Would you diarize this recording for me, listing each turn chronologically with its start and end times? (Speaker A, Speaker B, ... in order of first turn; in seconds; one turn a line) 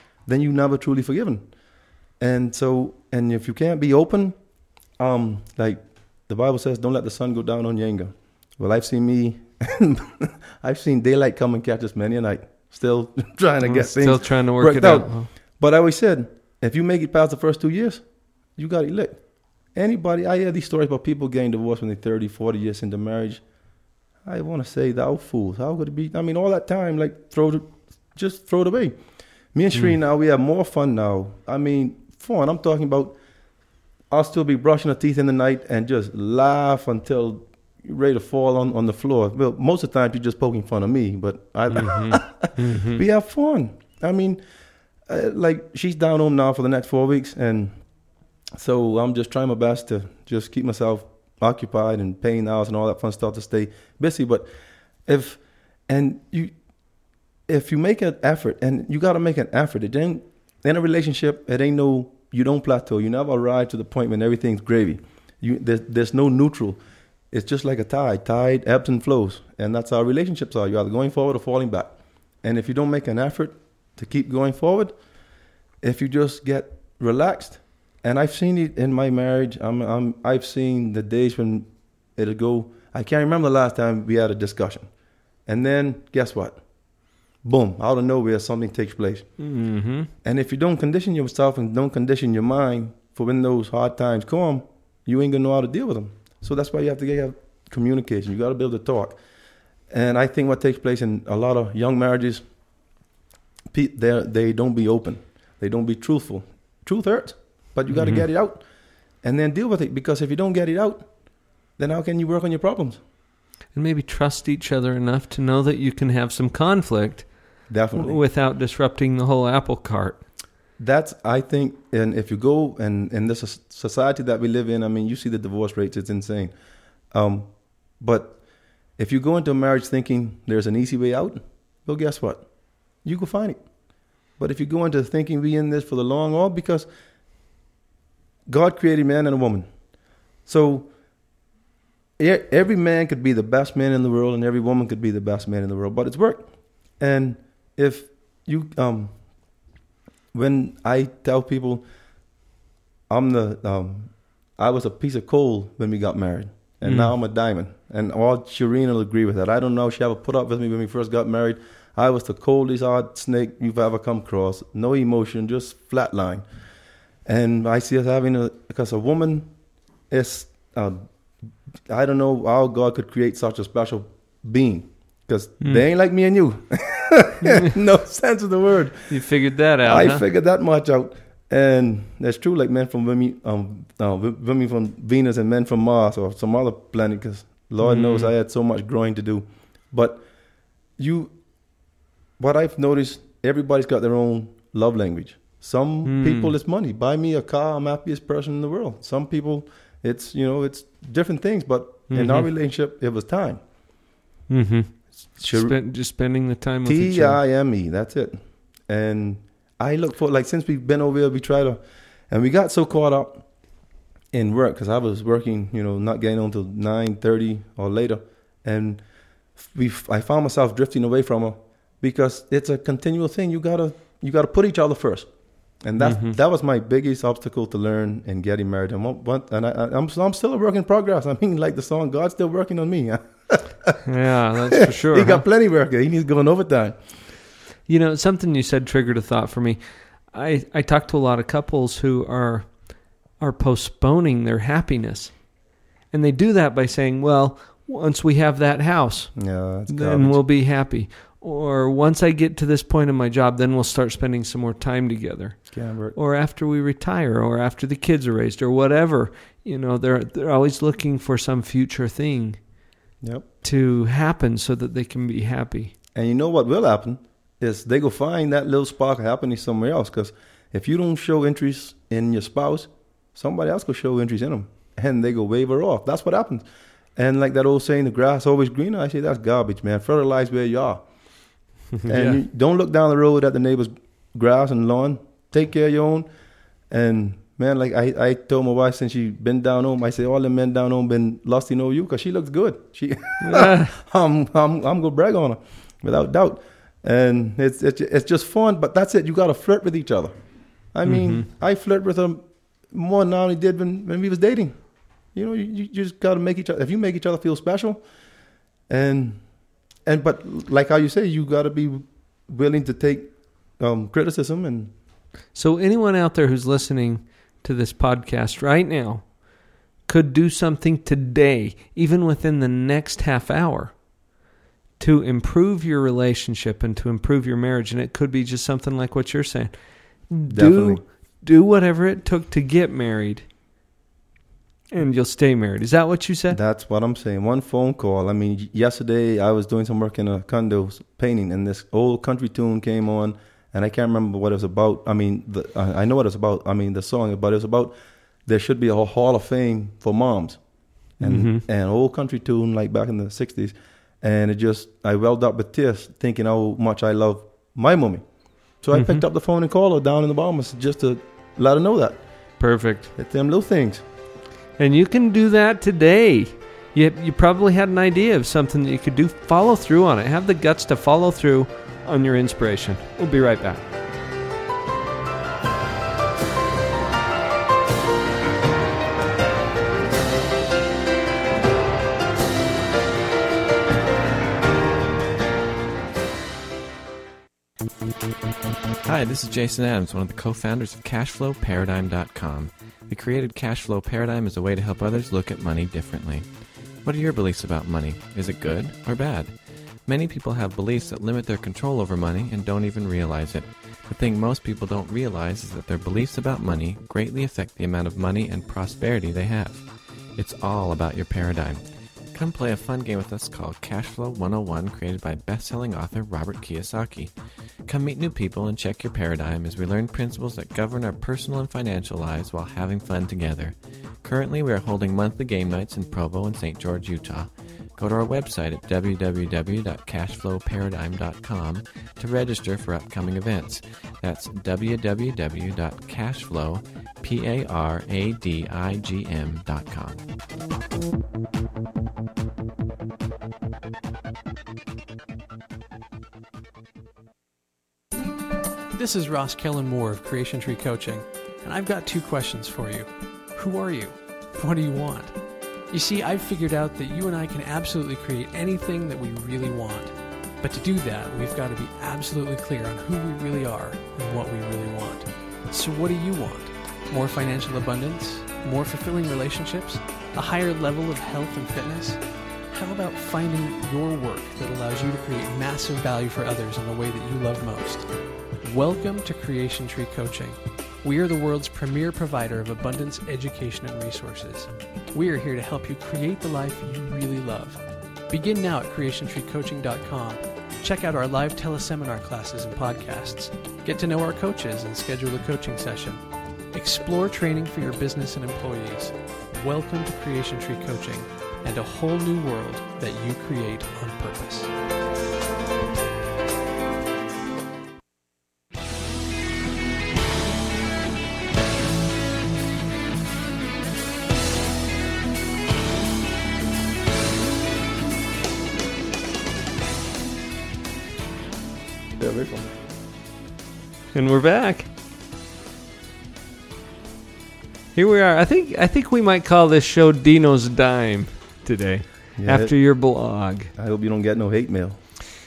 Speaker A: 0.2-23.5
Speaker B: 13.6-15.3
Speaker A: 24.2-33.2
Speaker A: 34.1-54.5
Speaker B: 41.7-43.0
Speaker A: 55.0-75.2
Speaker A: 75.8-84.9
Speaker A: 85.4-86.6
Speaker A: 87.3-89.4
Speaker B: 89.4-90.1
Speaker A: 90.2-99.2
Speaker A: 99.9-102.8
Speaker A: 103.7-113.0
Speaker B: 107.9-108.2
Speaker B: 113.7-120.2
Speaker A: 117.7-118.2
Speaker A: 120.8-126.5
Speaker A: 127.1-136.9
Speaker A: 138.4-140.9
Speaker A: 142.2-149.8
Speaker A: 150.3-151.9
Speaker A: 153.1-166.6
Speaker B: 156.8-157.1
Speaker A: 167.2-179.3
Speaker B: 179.1-180.2
Speaker A: 179.8-191.8
Speaker B: 187.8-188.3
Speaker A: 192.4-203.6
Speaker B: 196.0-196.5
Speaker B: 202.1-202.5
Speaker B: 204.5-207.4
Speaker A: 205.4-206.0
Speaker A: 206.8-233.9
Speaker B: 226.0-226.4
Speaker B: 234.0-235.4
Speaker A: 234.9-237.3
Speaker B: 237.8-262.8
Speaker A: 249.3-250.4
Speaker A: 255.7-256.2
Speaker A: 263.2-263.5
Speaker B: 263.6-265.9
Speaker A: 266.1-286.3
Speaker B: 282.0-282.4
Speaker A: 286.9-315.0
Speaker B: 293.4-293.9
Speaker B: 301.1-301.5
Speaker B: 315.5-324.1
Speaker B: 325.0-333.5
Speaker A: 330.5-331.0
Speaker B: 334.9-336.6
Speaker A: 336.5-364.1
Speaker B: 351.2-351.6
Speaker B: 358.9-359.2
Speaker B: 362.6-363.1
Speaker B: 364.8-373.8
Speaker C: 389.0-440.2
Speaker D: 448.9-504.7
Speaker A: 522.1-522.8
Speaker B: 524.1-524.9
Speaker B: 527.9-533.7
Speaker A: 532.4-533.0
Speaker A: 533.7-535.4